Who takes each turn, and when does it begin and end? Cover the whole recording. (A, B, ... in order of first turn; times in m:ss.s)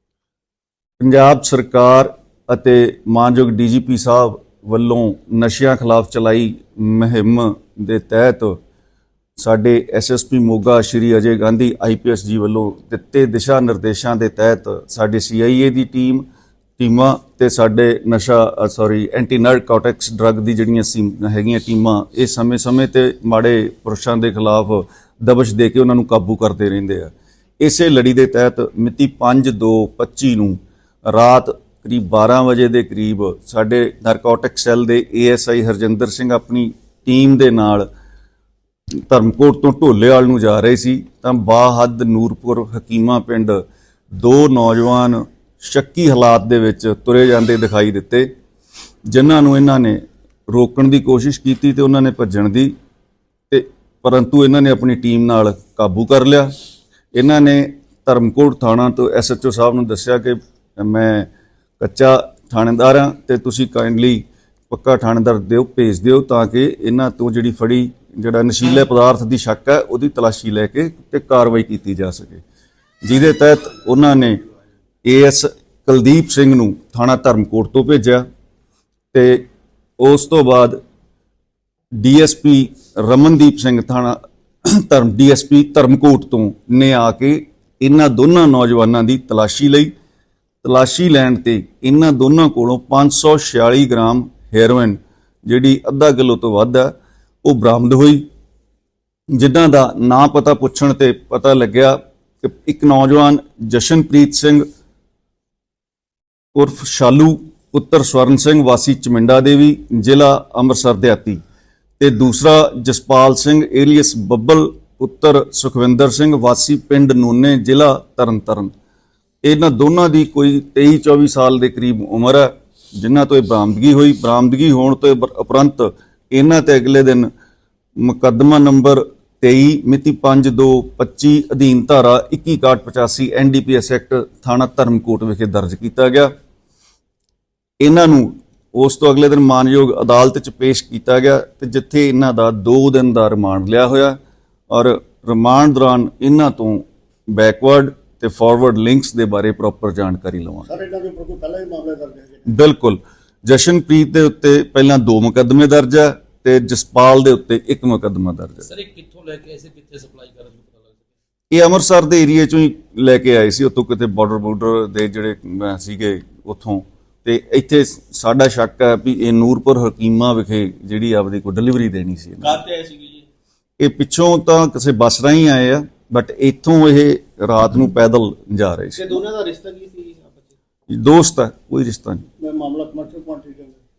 0:01.0-0:08.6 A
0:09.4-0:16.2 A
0:16.8-0:37.8 A
0:39.1-0:43.6 A
0:44.2-0:48.3 A
0:49.1-0:52.7 A
0:53.5-0:56.5 A
0:57.1-1:12.4 A
1:13.0-1:14.4 A
1:15.0-1:18.2 A
1:19.1-1:19.4 A
1:20.0-1:20.8 A
1:22.0-1:29.9 A
1:30.6-1:36.9 A
1:37.4-1:38.2 A
1:39.4-1:44.6 A
1:46.5-1:51.4 A
1:52.0-1:58.7 A
1:59.4-2:07.3 A
2:08.0-2:16.3 A
2:17.8-2:24.1 A
2:24.7-2:30.8 A
2:30.7-2:32.4 B
2:32.5-2:38.7 A
2:38.6-2:41.0 C
2:41.5-2:52.6 A
2:52.4-2:53.2 C
2:53.8-2:59.2 A
2:59.0-3:00.6 C
3:00.9-3:02.2 A
3:02.4-3:03.8 B